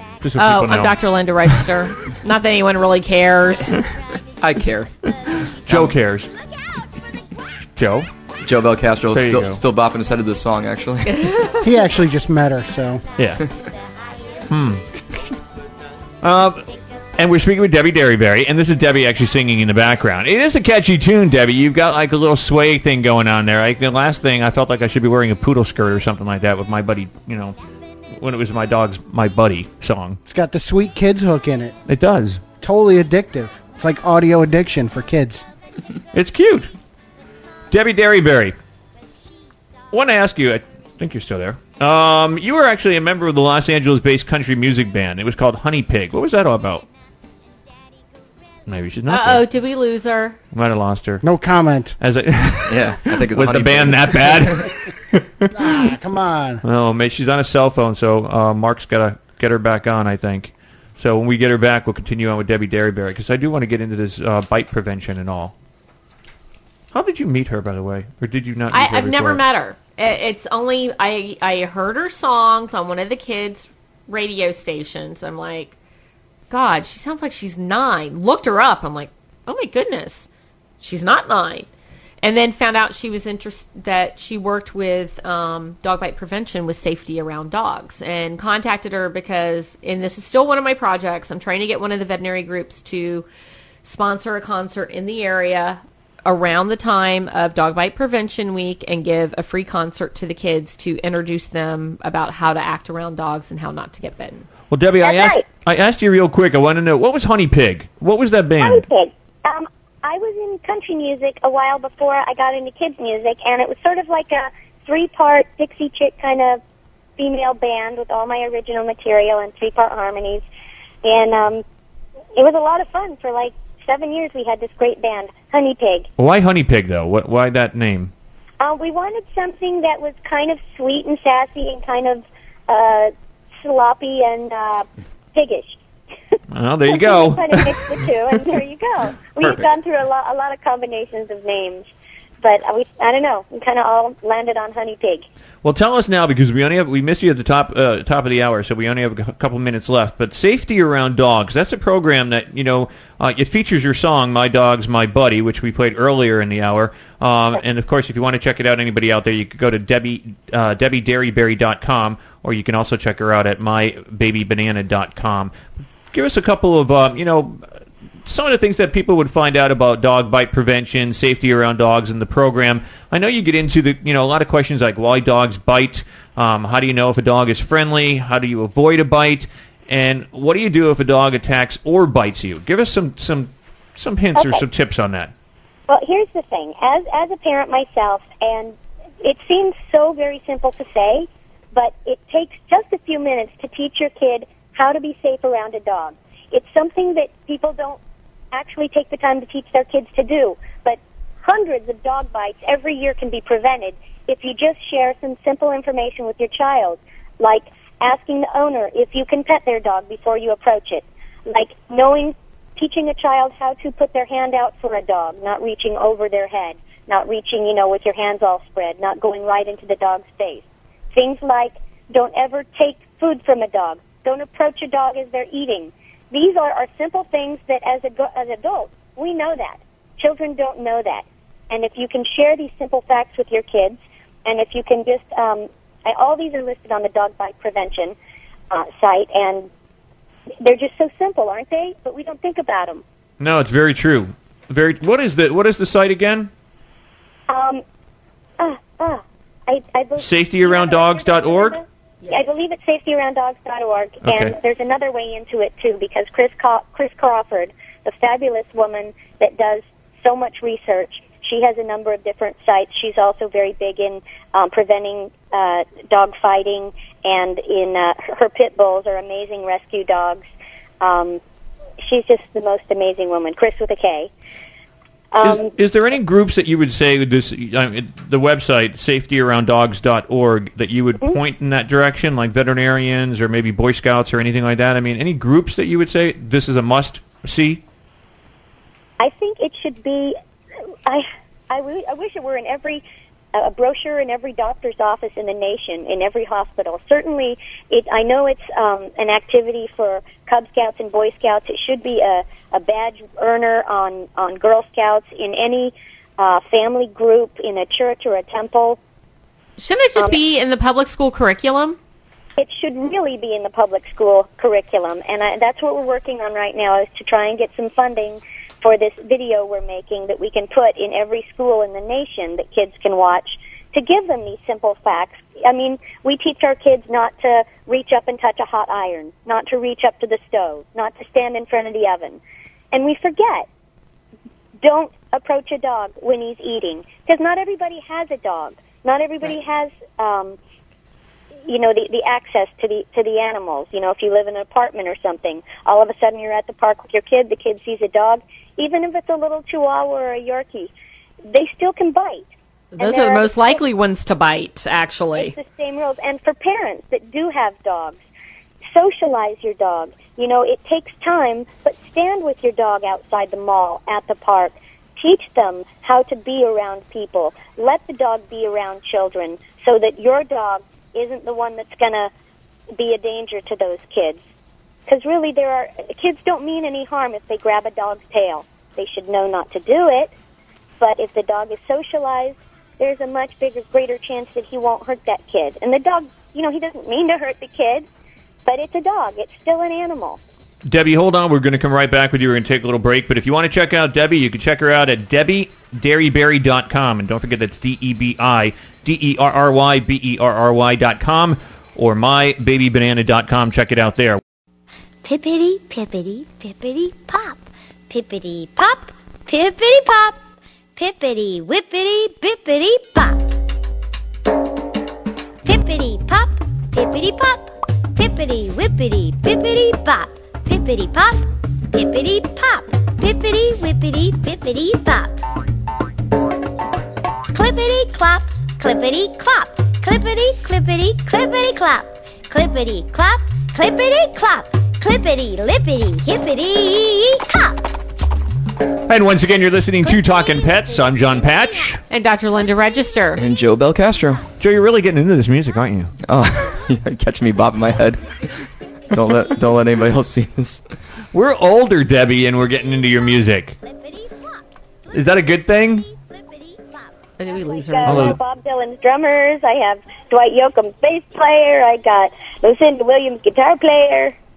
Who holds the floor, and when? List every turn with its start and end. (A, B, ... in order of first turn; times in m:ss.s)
0:00.2-0:01.0 A
0:00.4-0:03.8 B
0:04.4-0:04.9 C
0:05.3-0:06.3 A
0:07.8-0:08.1 A
0:08.4-0:11.3 C
0:09.1-0:09.6 A
0:11.1-0:11.6 B
0:11.6-0:13.0 D
0:13.2-0:13.4 A
0:13.9-0:14.5 E
0:14.5-0:14.8 A
0:16.2-0:27.6 A
0:28.1-0:30.2 A
0:30.3-0:31.7 D
0:31.9-0:32.4 A
0:32.6-0:35.4 D
0:36.1-0:36.7 A
0:37.7-0:38.6 A
0:39.9-0:46.9 A
0:48.7-0:49.5 A
0:49.1-0:50.4 B
0:50.5-0:51.2 A
0:51.2-0:52.0 D
0:52.0-0:55.8 A
0:52.7-0:54.7 C
0:55.5-0:56.6 D
0:56.6-1:05.5 A
1:06.9-1:09.4 A
1:08.7-1:15.8 B
1:16.5-1:20.3 B
1:20.8-1:21.7 B
1:22.2-1:33.2 B
1:33.8-1:44.5 B
1:44.7-1:48.8 A
1:45.0-1:45.4 F
1:48.6-1:56.6 F
1:57.2-2:00.4 F
2:01.0-2:01.6 F
2:02.4-2:06.1 F
2:06.2-2:08.1 A
2:08.6-2:15.8 F
2:16.5-2:17.7 A
2:16.9-2:21.9 F
2:19.4-2:19.7 C
2:22.4-2:25.3 F
2:25.6-2:45.6 A
2:46.1-2:47.6 A
2:48.3-3:05.3 A
3:04.4-3:04.6 F
3:05.9-3:18.0 F
3:18.5-3:58.2 F
3:58.7-3:59.7 F
4:00.6-4:03.0 F
4:03.4-4:06.5 A
4:07.5-4:07.8 F
4:08.6-4:30.5 F
4:10.2-4:11.8 A
4:14.2-4:14.5 A
4:31.0-4:31.4 F
4:32.0-4:34.3 F
4:35.3-4:35.7 F
4:35.4-4:47.8 A
4:49.2-4:50.4 F
4:51.1-4:53.0 F
4:53.5-5:09.0 F
5:09.8-5:12.0 B
5:12.6-5:32.4 F
5:32.9-5:33.7 F
5:34.8-5:40.6 F
5:41.7-5:50.9 F
5:51.5-5:52.5 F
5:52.9-5:55.6 B
5:53.0-5:53.8 F
5:55.4-5:58.2 F
5:58.9-6:12.3 F
6:13.0-6:14.4 F
6:15.1-6:20.3 F
6:21.0-6:28.1 F
6:28.7-6:30.4 F
6:30.9-6:44.4 A
6:45.2-6:50.4 E
6:51.0-6:53.5 E
6:55.6-7:05.4 E
7:07.5-7:17.9 E
7:19.1-7:22.0 A
7:20.3-7:21.9 E
7:22.1-7:23.4 B
7:23.4-7:24.4 C
7:24.6-7:26.1 A
7:26.2-7:28.2 C
7:29.1-7:30.8 C
7:31.3-7:33.8 A
7:33.8-7:34.7 E
7:35.1-7:36.1 A
7:35.3-7:37.1 E
7:37.4-7:38.4 B
7:37.9-7:44.4 F
7:38.1-7:38.4 A